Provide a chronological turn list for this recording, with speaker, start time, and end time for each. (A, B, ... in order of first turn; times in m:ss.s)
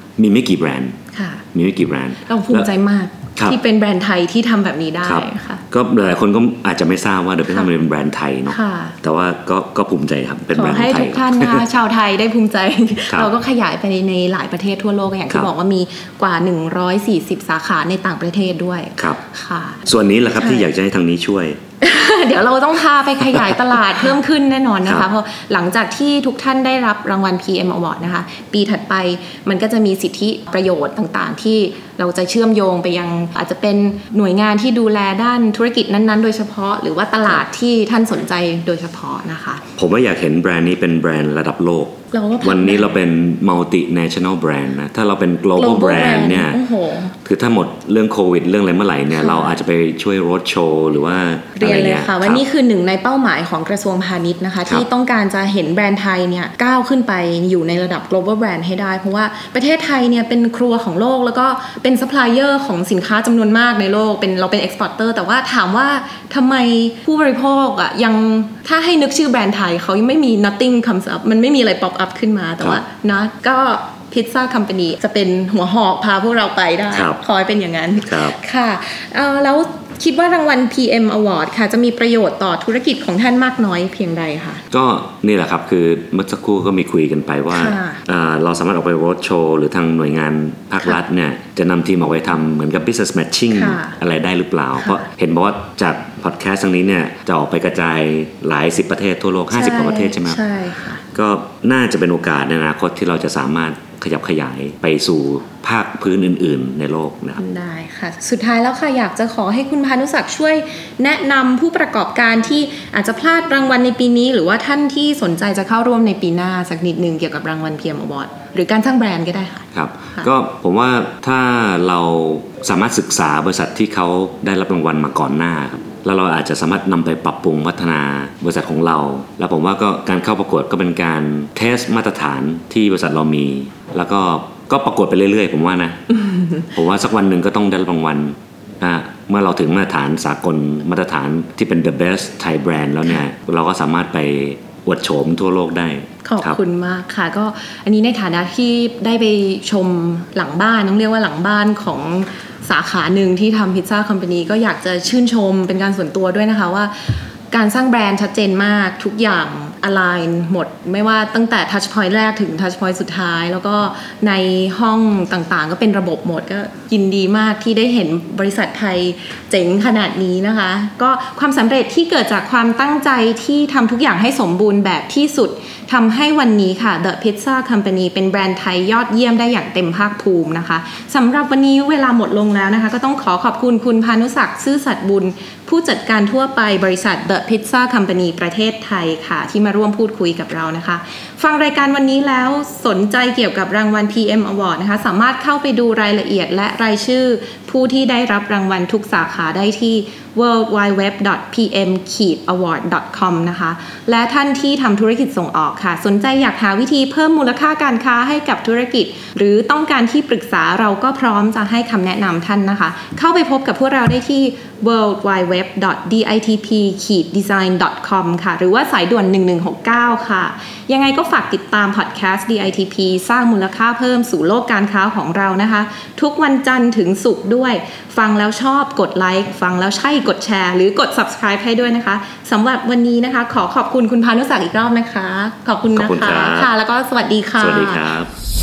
0:00.2-0:01.0 A
0:01.1-0:01.4 B
0:01.5-0:02.7 A
0:02.2-0:05.6 B
0:05.0-0:11.7 A
0:08.5-0:09.0 B
0:10.5-0:19.8 B
0:19.8-0:21.6 A
0:20.4-0:20.7 B
0:21.8-0:39.6 B
0:39.8-0:46.6 A
0:42.1-0:43.0 B
0:45.6-0:47.1 B
0:47.2-0:52.4 A
0:49.1-0:49.6 B
0:51.6-1:24.6 B
1:16.9-1:17.2 A
1:18.0-1:18.4 A
1:24.7-1:40.4 A
1:27.5-1:28.0 B
1:33.5-1:33.9 B
1:34.8-1:35.1 B
1:39.5-1:41.0 B
1:41.1-1:47.4 A
1:47.4-2:00.3 B
1:59.7-2:16.0 A
2:16.1-2:16.7 B
2:16.7-2:26.6 A
2:26.2-3:58.0 B
3:55.9-3:56.7 A
3:57.6-3:58.3 A